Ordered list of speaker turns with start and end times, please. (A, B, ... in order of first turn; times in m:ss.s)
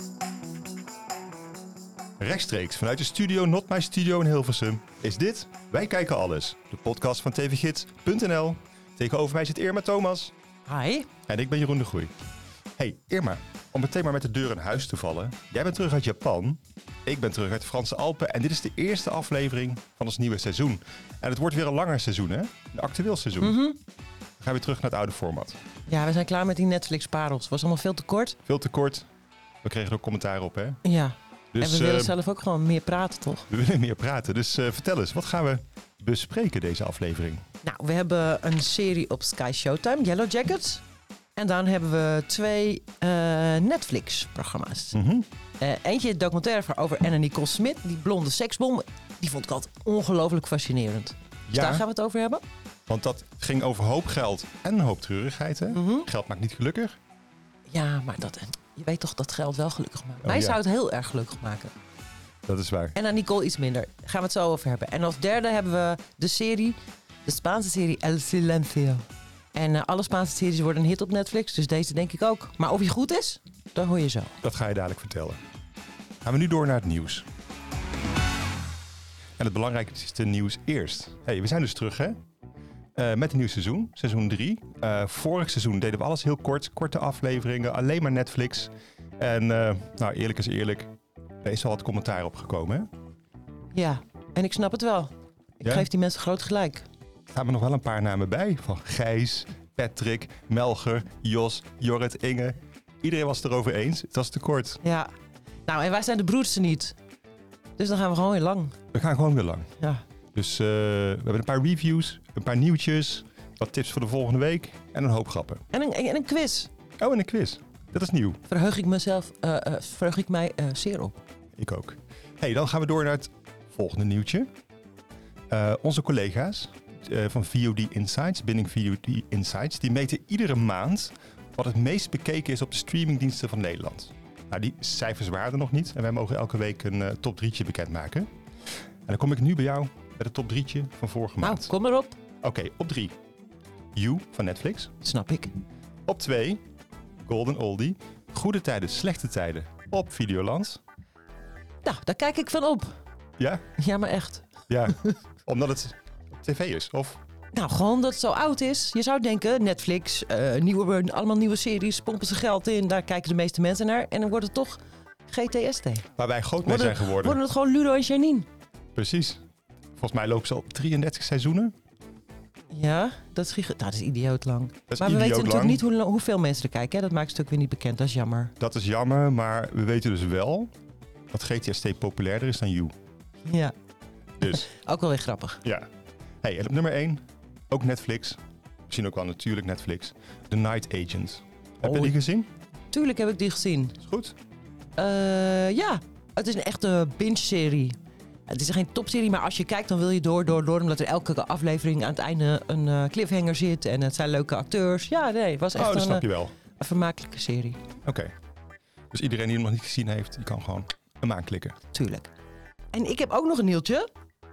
0:02.2-0:10.3 A
0:10.6-0:11.1 B
0:11.3-0:12.1 A
0:12.8-0:23.6 A
0:23.4-0:23.8 B
0:24.4-0:25.6 A
0:25.9-0:28.4 B
0:28.4-0:29.1 A
0:29.6-0:30.8 A
0:30.8-0:33.5 B
0:31.5-0:32.2 A
0:33.5-0:37.4 A
0:37.6-0:40.8 B
0:41.4-0:45.0 B
0:44.9-0:45.3 A
0:45.6-0:52.4 B
0:51.5-0:51.8 A
0:52.9-0:57.0 A
0:55.7-0:56.1 B
0:57.7-1:01.7 B
1:00.2-1:00.6 A
1:02.5-1:03.0 A
1:03.0-1:14.3 B
1:14.4-1:15.4 A
1:16.2-1:17.2 A
1:19.4-1:22.2 A
1:23.0-1:30.9 A
1:31.4-1:32.9 A
1:33.7-1:36.9 B
1:37.3-1:44.8 A
1:44.8-1:45.1 B
1:45.7-1:47.0 B
1:47.8-1:48.8 B
1:48.9-1:49.7 A
1:50.3-1:55.6 A
1:55.7-1:56.7 B
1:57.0-1:58.4 A
1:58.5-2:01.2 B
2:01.6-2:04.5 A
2:05.5-2:18.3 A
2:19.1-2:21.7 A
2:21.4-2:22.2 B
2:22.4-2:23.1 A
2:23.9-2:24.9 A
2:25.0-2:25.5 B
2:26.1-2:26.6 A
2:27.2-2:30.8 A
2:31.8-2:33.0 B
2:33.4-2:33.6 A
2:33.8-2:35.1 B
2:34.7-2:37.2 A
2:37.5-2:46.1 B
2:46.2-2:47.4 A
2:46.6-2:48.5 B
2:48.9-2:49.4 A
2:50.0-2:51.7 A
2:52.7-2:58.5 B
2:54.9-2:55.8 A
2:58.6-3:00.7 A
3:01.3-3:02.9 A
3:03.4-3:03.8 B
3:04.4-3:04.7 A
3:04.4-3:05.6 B
3:06.4-3:08.4 A
3:08.9-3:12.5 A
3:11.8-3:12.2 B
3:12.9-3:14.0 B
3:14.0-3:14.3 A
3:15.0-3:27.8 B
3:25.8-3:26.5 A
3:28.0-3:28.3 A
3:29.1-3:31.8 A
3:31.9-3:32.3 B
3:32.9-3:34.1 B